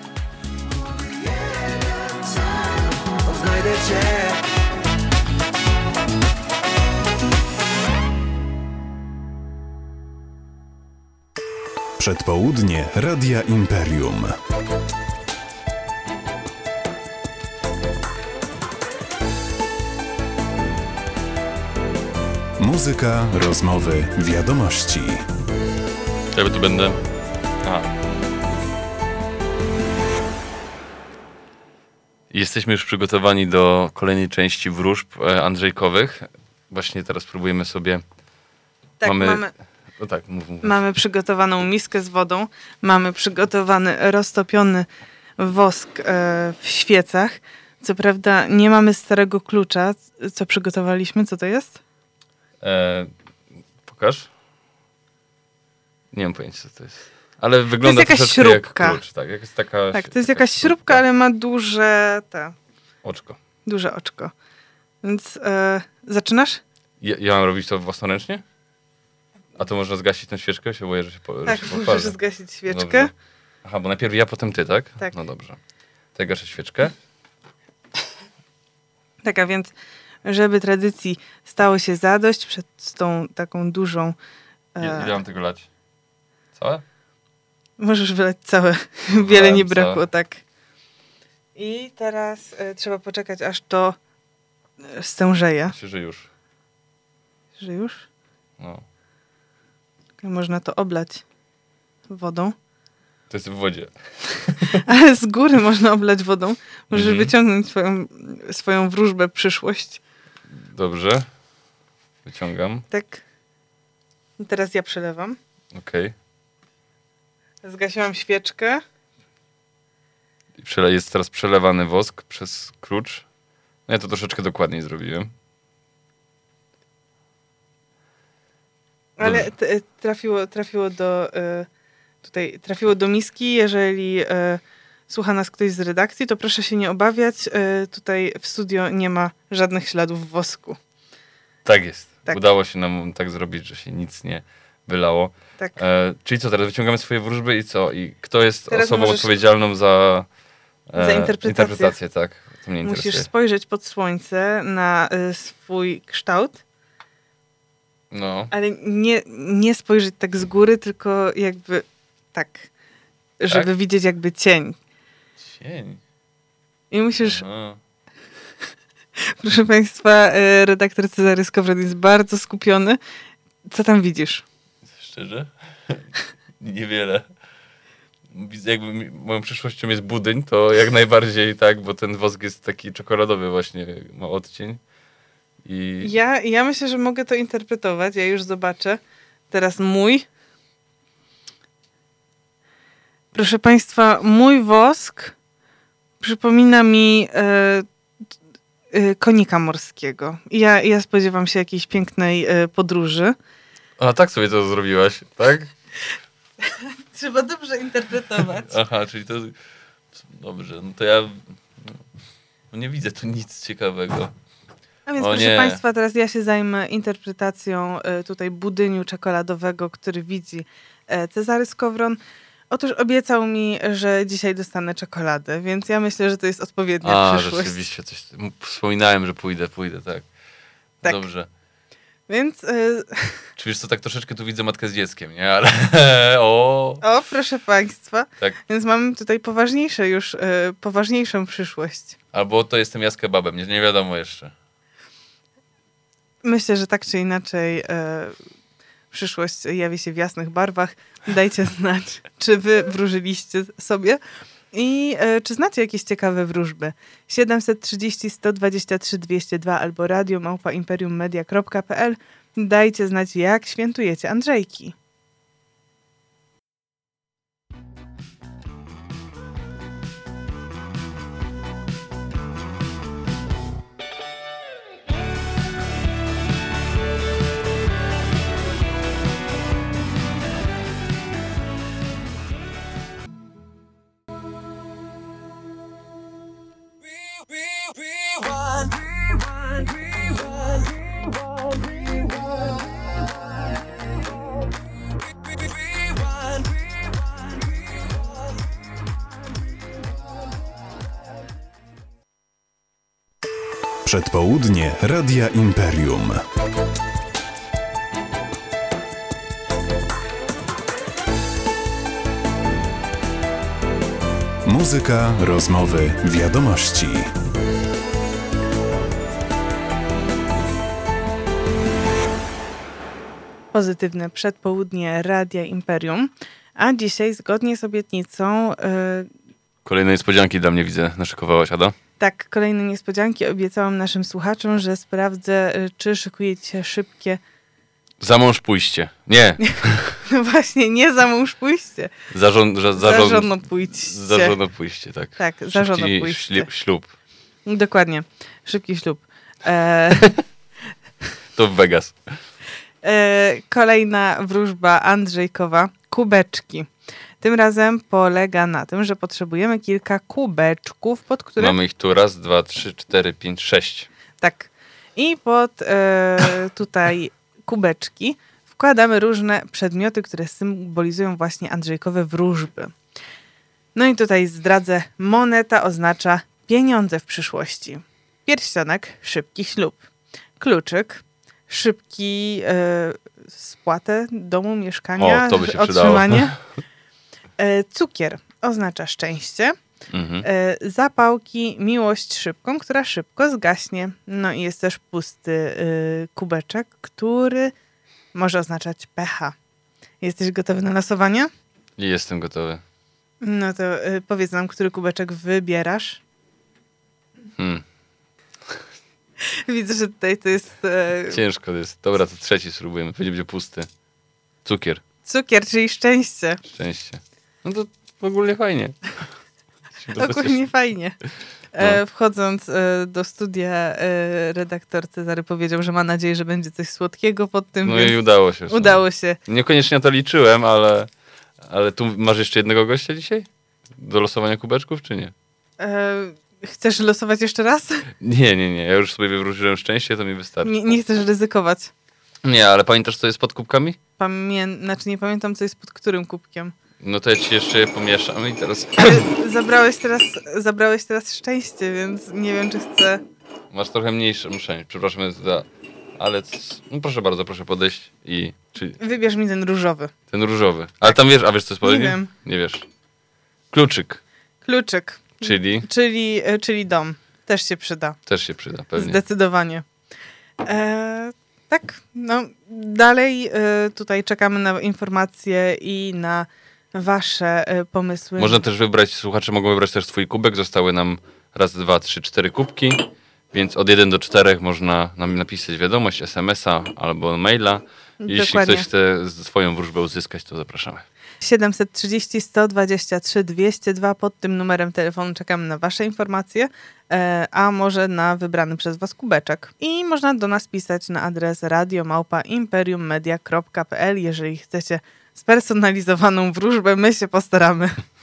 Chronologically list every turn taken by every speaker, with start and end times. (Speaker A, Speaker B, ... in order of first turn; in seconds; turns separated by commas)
Speaker A: 12.0-14.4, Speaker A: 22.6-25.2, Speaker B: 26.3-27.0, Speaker B: 32.3-38.0, Speaker C: 39.0-39.5, Speaker B: 39.0-39.4, Speaker B: 40.0-40.8, Speaker C: 40.6-44.9, Speaker C: 45.4-51.8, Speaker B: 52.6-53.1, Speaker B: 53.9-54.3, Speaker B: 56.1-61.0, Speaker C: 57.8-59.0, Speaker C: 59.9-62.5, Speaker B: 63.0-63.4, Speaker C: 63.6-64.3, Speaker C: 65.0-66.6, Speaker B: 67.0-68.4, Speaker B: 69.6-73.1, Speaker C: 71.5-73.1, Speaker B: 73.7-75.6, Speaker B: 76.2-77.0, Speaker C: 79.2-79.7, Speaker C: 80.2-84.2, Speaker C: 84.8-85.2, Speaker B: 84.8-85.7, Speaker B: 86.5-86.8, Speaker C: 87.8-90.4, Speaker B: 89.1-90.1, Speaker C: 91.5-94.0, Speaker C: 94.8-95.8, Speaker B: 95.7-96.3, Speaker C: 97.6-98.1, Speaker C: 100.2-101.2, Speaker C: 102.1-102.5, Speaker B: 103.3-104.8, Speaker C: 104.8-110.0, Speaker B: 106.9-107.3, Speaker B: 110.7-111.3, Speaker B: 112.2-112.9, Speaker C: 112.9-113.2, Speaker C: 114.4-115.4, Speaker B: 115.7-116.1, Speaker C: 117.6-118.8, Speaker B: 120.6-123.3, Speaker B: 123.9-125.3, Speaker C: 129.2-131.7, Speaker B: 129.2-129.5, Speaker C: 132.2-140.8, Speaker B: 141.7-150.3, Speaker C: 148.7-149.4, Speaker B: 150.9-153.3, Speaker C: 151.0-152.0, Speaker C: 152.8-156.6, Speaker B: 158.1-158.5, Speaker C: 158.5-162.7, Speaker C: 163.4-164.8, Speaker B: 165.4-166.0, Speaker C: 166.9-167.4, Speaker B: 167.2-167.8, Speaker C: 169.3-173.0, Speaker C: 173.7-174.4, Speaker B: 175.0-177.3, Speaker B: 178.3-184.8, Speaker B: 185.6-186.1, Speaker C: 186.0-190.3, Speaker C: 193.3-195.3, Speaker C: 196.2-197.8, Speaker C: 198.9-203.3, Speaker B: 204.0-205.7, Speaker C: 206.6-208.7, Speaker B: 208.6-209.6, Speaker B: 210.2-212.0, Speaker B: 212.7-214.3, Speaker C: 215.1-222.2, Speaker B: 215.2-215.8, Speaker C: 222.7-227.8, Speaker B: 227.0-230.3, Speaker B: 231.0-231.5, Speaker C: 232.3-233.4, Speaker B: 233.6-237.0, Speaker C: 237.0-242.2, Speaker B: 242.3-244.5, Speaker C: 246.4-248.4, Speaker C: 249.1-254.2, Speaker C: 254.7-264.9, Speaker A: 304.1-306.4, Speaker A: 314.6-317.3, Speaker C: 323.7-329.3, Speaker B: 329.9-331.9, Speaker C: 332.2-337.4, Speaker B: 338.2-340.2, Speaker C: 339.6-342.1, Speaker B: 342.3-347.1, Speaker C: 343.0-344.6, Speaker C: 345.3-346.7, Speaker C: 347.6-350.4, Speaker B: 351.6-352.4, Speaker C: 353.0-356.9, Speaker C: 357.4-361.8, Speaker B: 361.6-364.1, Speaker C: 364.4-372.9, Speaker C: 373.9-380.0, Speaker C: 380.6-386.6, Speaker B: 385.2-386.6, Speaker C: 387.6-389.8, Speaker B: 390.1-390.5, Speaker C: 390.4-397.7, Speaker C: 398.3-399.6, Speaker C: 400.2-401.5, Speaker B: 402.0-402.8, Speaker C: 403.4-406.2, Speaker B: 407.6-407.8, Speaker C: 409.4-411.4, Speaker B: 411.3-413.9, Speaker B: 414.6-415.0, Speaker C: 415.2-416.6, Speaker B: 416.7-419.2, Speaker B: 420.0-420.7, Speaker C: 420.1-421.2, Speaker C: 421.7-429.4, Speaker B: 427.9-431.1, Speaker B: 431.6-435.3, Speaker C: 435.8-438.1, Speaker B: 438.2-440.7, Speaker C: 440.6-441.9, Speaker B: 442.4-444.0, Speaker C: 444.2-446.7, Speaker B: 447.0-449.3, Speaker C: 449.0-453.2, Speaker B: 453.7-455.7, Speaker B: 456.2-459.0, Speaker C: 459.0-460.1, Speaker B: 460.3-462.9, Speaker C: 461.0-462.3, Speaker B: 463.7-464.2, Speaker C: 464.6-468.2, Speaker B: 465.4-465.9, Speaker B: 468.3-469.2, Speaker C: 468.9-469.9, Speaker C: 470.6-478.6, Speaker B: 478.4-491.1, Speaker C: 488.2-488.9, Speaker C: 491.4-507.9